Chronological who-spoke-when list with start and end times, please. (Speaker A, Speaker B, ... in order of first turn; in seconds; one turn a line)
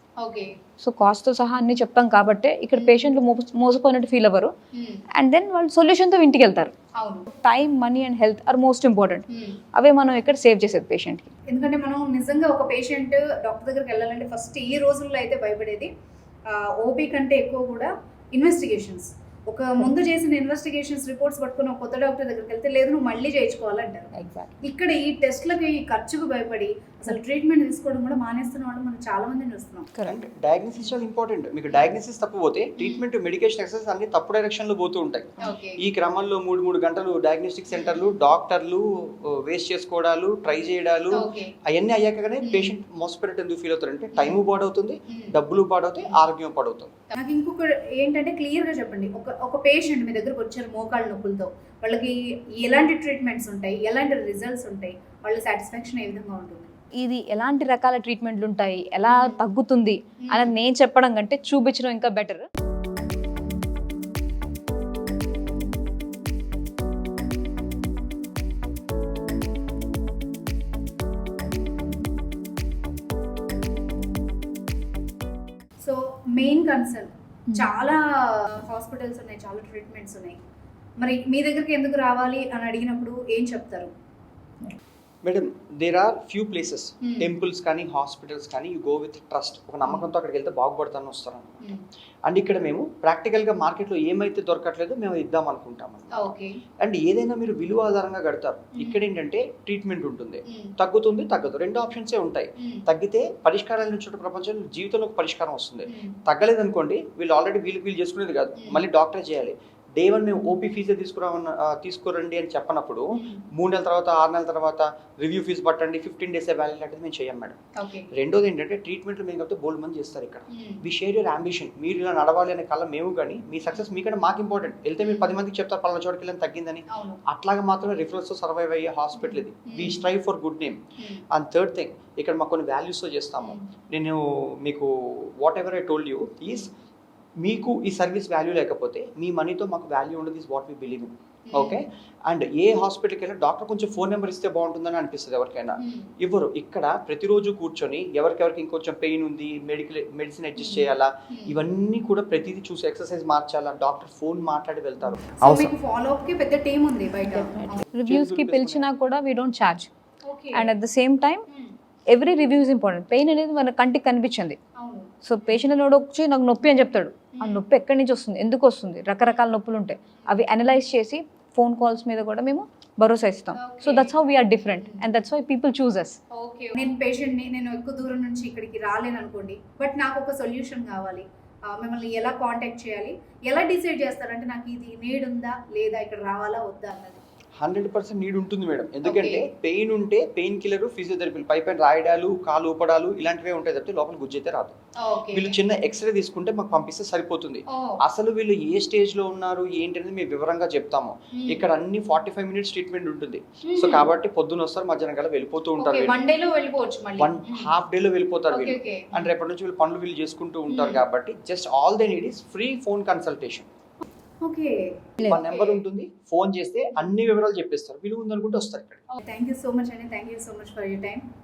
Speaker A: 0.2-0.6
Speaker B: 0.8-4.5
Speaker A: 2.7-3.1
Speaker A: 4.7-5.0
Speaker B: 5.1-6.7
Speaker A: 7.0-7.3
Speaker B: 7.3-11.3
Speaker A: 9.3-9.6
Speaker A: 11.5-15.9
Speaker A: 16.5-29.9
Speaker B: 24.1-24.6
Speaker C: 30.0-46.9
Speaker A: 31.7-31.9
Speaker A: 32.8-33.0
Speaker A: 35.4-35.8
Speaker A: 37.7-38.2
Speaker A: 41.1-41.5
Speaker A: 42.4-42.7
Speaker A: 44.1-44.4
Speaker A: 45.1-45.4
Speaker A: 47.1-56.7
Speaker B: 57.0-62.5
Speaker A: 59.0-59.4
Speaker A: 60.2-60.5
Speaker A: 75.8-80.4
Speaker A: 81.0-83.9
Speaker C: 85.2-91.7
Speaker A: 87.0-87.3
Speaker A: 89.8-90.1
Speaker C: 92.3-96.3
Speaker A: 96.1-96.6
Speaker C: 96.8-117.5
Speaker A: 98.7-99.0
Speaker A: 100.5-100.7
Speaker A: 102.6-102.8
Speaker A: 105.9-106.2
Speaker A: 108.5-108.8
Speaker A: 113.1-113.5
Speaker A: 117.8-118.1
Speaker C: 118.1-130.8
Speaker A: 120.5-120.8
Speaker A: 125.0-125.4
Speaker A: 126.9-127.2
Speaker A: 129.1-130.0
Speaker A: 131.0-131.2
Speaker C: 131.3-136.7
Speaker A: 133.4-133.7
Speaker C: 137.4-155.7
Speaker A: 141.5-141.8
Speaker A: 145.8-146.1
Speaker A: 150.6-151.6
Speaker A: 155.4-157.8
Speaker B: 157.3-159.9
Speaker C: 157.8-158.9
Speaker A: 160.2-160.7
Speaker B: 160.5-161.4
Speaker A: 161.5-161.7
Speaker B: 162.1-164.6
Speaker A: 164.8-165.6
Speaker B: 165.2-176.2
Speaker A: 167.3-167.6
Speaker A: 170.2-170.4
Speaker A: 173.5-174.2
Speaker A: 174.7-175.1
Speaker A: 176.3-187.2
Speaker C: 187.6-194.7
Speaker A: 189.0-189.5
Speaker A: 195.0-195.6
Speaker C: 195.3-206.2
Speaker A: 197.7-197.9
Speaker A: 201.3-201.7
Speaker A: 203.6-204.1
Speaker A: 205.8-207.7
Speaker C: 207.2-213.7
Speaker A: 208.5-209.3
Speaker A: 210.7-211.0
Speaker A: 214.4-215.8
Speaker C: 215.2-219.0
Speaker A: 219.1-221.2